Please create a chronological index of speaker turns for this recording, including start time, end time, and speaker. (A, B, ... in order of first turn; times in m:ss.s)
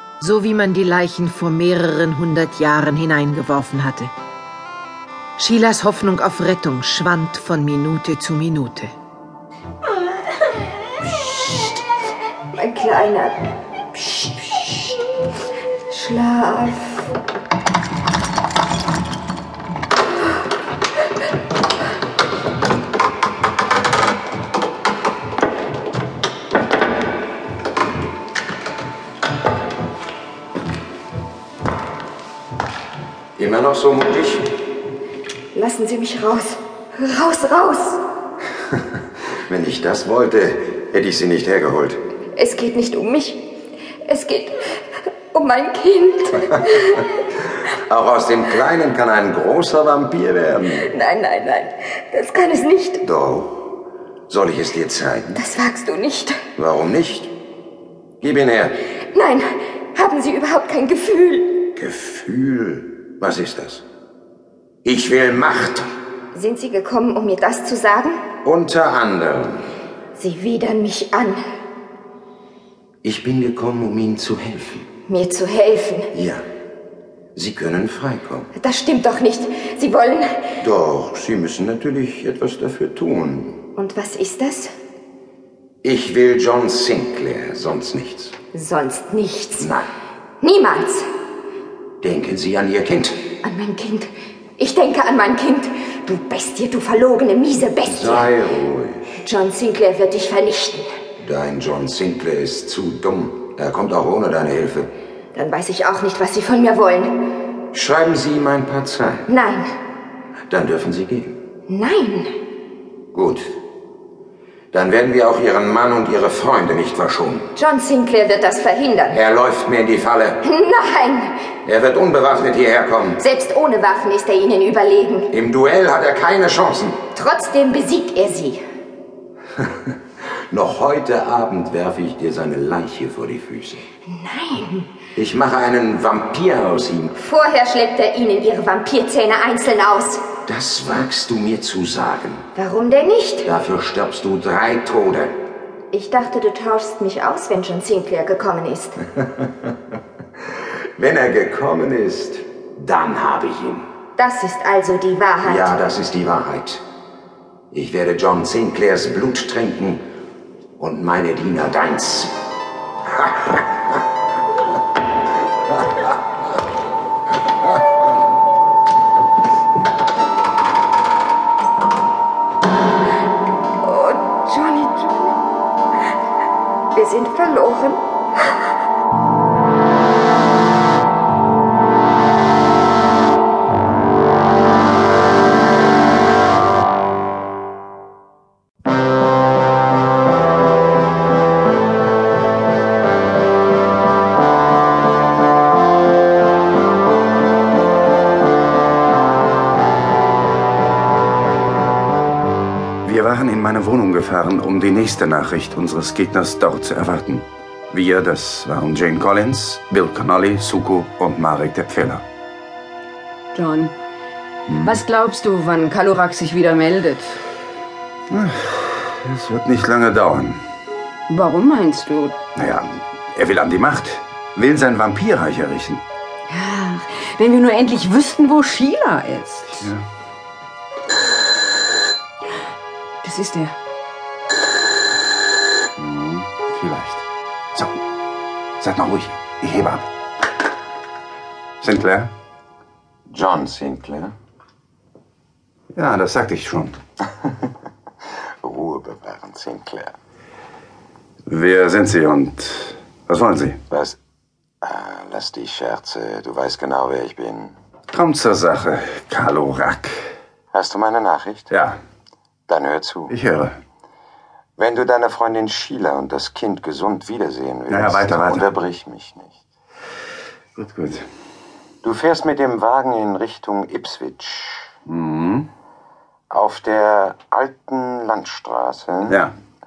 0:00.2-0:04.1 A
0:05.4-0:08.9 A
0:11.0-0:11.7 B
0:12.5-0:13.4 B
0:13.9-0:15.0 B
0:15.9-0:17.2 B
0:33.4-0:34.5 C
0:35.5-0:38.0 B
0:39.5-0:42.0 C
0:42.3-0:43.5 B
0:44.0-0:47.1 B
0:47.6-0:50.9 C
0:50.8-0:53.0 B
0:53.0-0:55.4 C
0:55.4-0:56.4 B
0:56.6-0:57.3 C
0:58.2-0:58.8 C
0:59.1-1:01.6 B
1:01.7-1:03.8 C
1:04.8-1:05.9 C
1:06.3-1:08.2 B
1:08.4-1:09.7 C
1:10.2-1:11.4 B
1:13.0-1:14.9 C
1:15.1-1:16.1 B
1:16.1-1:16.4 C
1:17.3-1:18.5 C
1:18.5-1:20.5 B
1:20.6-1:23.6 C
1:23.8-1:24.7 B
1:25.8-1:28.4 C
1:28.5-1:29.7 B
1:29.6-1:29.9 C
1:30.4-1:31.1 B
1:32.0-1:33.2 C
1:33.4-1:38.3 B
1:37.8-1:39.2 C
1:39.2-1:40.9 B
1:41.2-1:44.9 C
1:45.3-1:47.3 B
1:47.7-1:49.3 C
1:49.3-1:49.7 B
1:50.5-1:51.4 C
1:51.7-1:52.4 B
1:53.1-1:53.4 C
1:54.7-1:57.5 C
1:57.6-1:59.2 B
1:59.1-2:00.4 C
2:00.4-2:01.4 B
2:01.6-2:03.2 C
2:03.2-2:05.3 B
2:05.3-2:07.0 C
2:07.1-2:08.6 B
2:10.5-2:13.8 C
2:14.1-2:14.9 B
2:15.1-2:17.1 C
2:17.1-2:20.2 B
2:20.4-2:22.5 C
2:22.6-2:23.5 B
2:23.4-2:25.4 C
2:25.9-2:29.0 B
2:31.0-2:33.8 C
2:34.2-2:35.8 B
2:35.4-2:36.8 C
2:37.7-2:40.0 C
2:40.8-2:42.3 C
2:43.1-2:43.6 C
2:53.8-2:55.4 B
2:56.9-2:58.0 B
3:23.0-3:32.2 D
3:29.4-3:29.8 C
3:33.5-3:33.9 E
3:34.8-3:37.4 E
3:38.3-3:40.6 D
3:41.3-3:42.4 E
3:42.6-3:43.0 C
3:43.4-3:44.2 D
3:44.6-3:45.9 C
3:46.5-3:49.8 E
3:53.2-3:53.7 E
3:56.0-3:57.2 D
3:58.8-4:00.0 D
4:01.8-4:02.3 D
4:03.3-4:04.3 C
4:05.9-4:07.0 D
4:08.6-4:10.2 C
4:11.5-4:13.8 D
4:13.9-4:14.2 C
4:14.8-4:17.8 C
4:18.1-4:20.1 D
4:20.7-4:21.7 C
4:21.7-4:22.0 D
4:22.7-4:23.4 C
4:23.3-4:23.7 D
4:24.8-4:29.6 C
4:27.9-4:28.7 D
4:30.8-4:31.2 D
4:32.0-4:34.9 C
4:35.1-4:35.7 D
4:36.5-4:39.4 C
4:39.3-4:39.5 D